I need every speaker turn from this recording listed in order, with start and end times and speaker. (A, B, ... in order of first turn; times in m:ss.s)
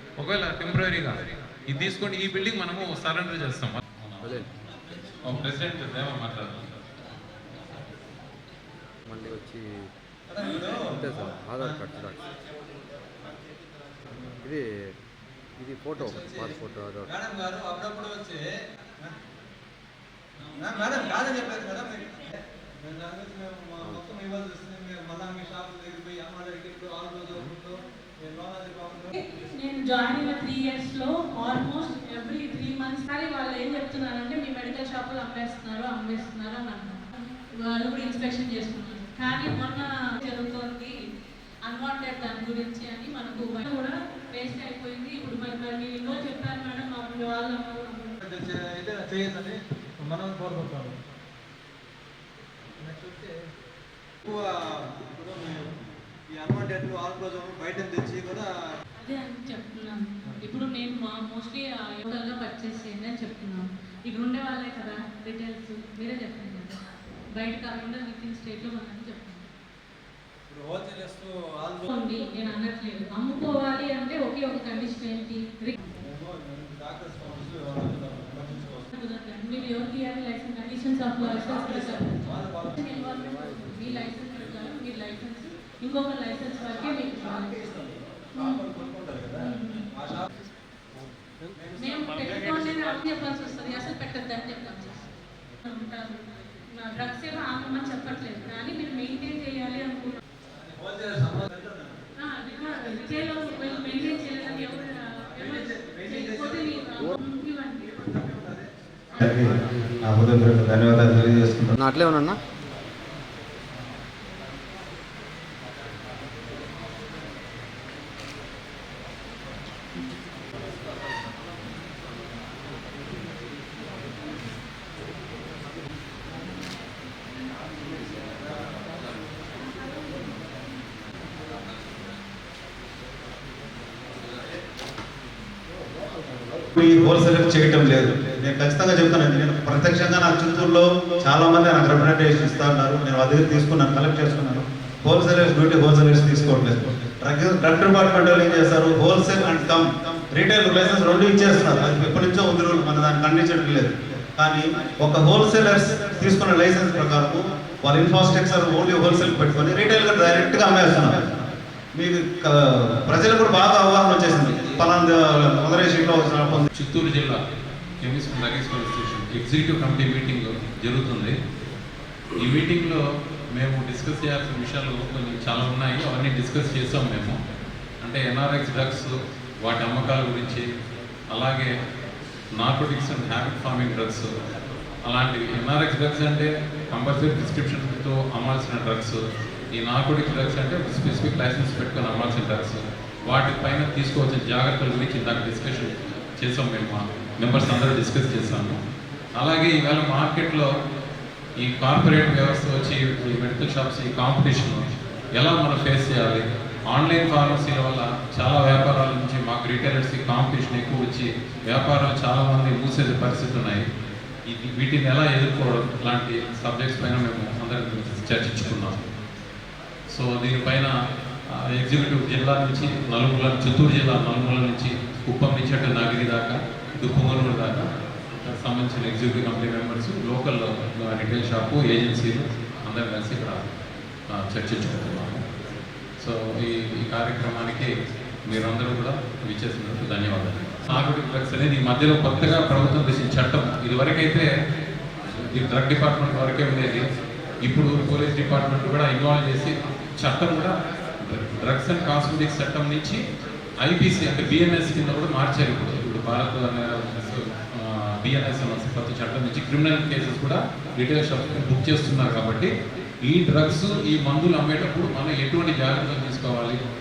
0:00.2-0:04.5 A
0:04.2-0:04.5 B
0:05.2-0:06.7 A
0:09.1-0:09.6 B
0:10.3-0:11.7 C
0:10.8-0:12.2 B
0:15.6-0:17.1 B
0:16.0-0:18.4 C
0:20.4-0:27.7 C
0:23.8-0:24.1 B
0:28.3-0:29.1 C
0:29.2-0:37.0 D
0:37.7-0:41.0 D
0:41.7-0:48.2 D
0:48.2-0:51.0 C
0:52.8-0:53.3 C
0:55.1-0:55.5 C
0:56.4-0:58.5 C
0:59.0-1:06.8 D
1:07.4-1:09.4 D
1:10.5-1:11.9 C
1:11.9-1:15.8 D
1:16.0-1:18.9 C
1:18.9-1:27.6 D
1:21.2-1:22.8 C
1:23.1-1:24.1 B
1:27.3-1:29.4 C
1:28.4-1:28.6 D
1:29.4-1:29.8 D
1:29.9-1:30.3 C
1:31.8-1:35.0 D
1:35.6-1:40.2 D
1:40.6-1:42.0 C
1:42.2-1:47.9 D
1:45.4-1:46.8 C
1:47.8-1:48.7 C
1:49.2-1:51.8 E
1:51.8-1:52.4 B
2:16.8-2:41.4 E
2:42.0-2:46.7 E
2:46.7-2:47.4 A
2:48.0-2:51.4 A
2:52.4-2:53.0 A
2:53.6-2:57.4 A
2:58.0-2:59.1 A
2:59.6-3:00.7 A
3:01.3-3:01.7 A
3:02.6-3:04.3 A
3:05.1-3:09.2 A
3:09.8-3:18.8 A
3:19.4-3:20.7 A
3:21.6-3:33.8 A
3:34.5-3:39.0 A
3:40.1-3:40.9 A
3:41.7-3:47.9 A
3:48.4-3:53.7 A
3:54.3-3:55.4 A
3:56.2-3:57.9 A
3:58.5-4:04.5 A
4:05.5-4:07.0 A
4:07.6-4:10.7 A
4:11.2-4:13.2 A
4:13.8-4:22.7 A
4:23.3-4:26.8 A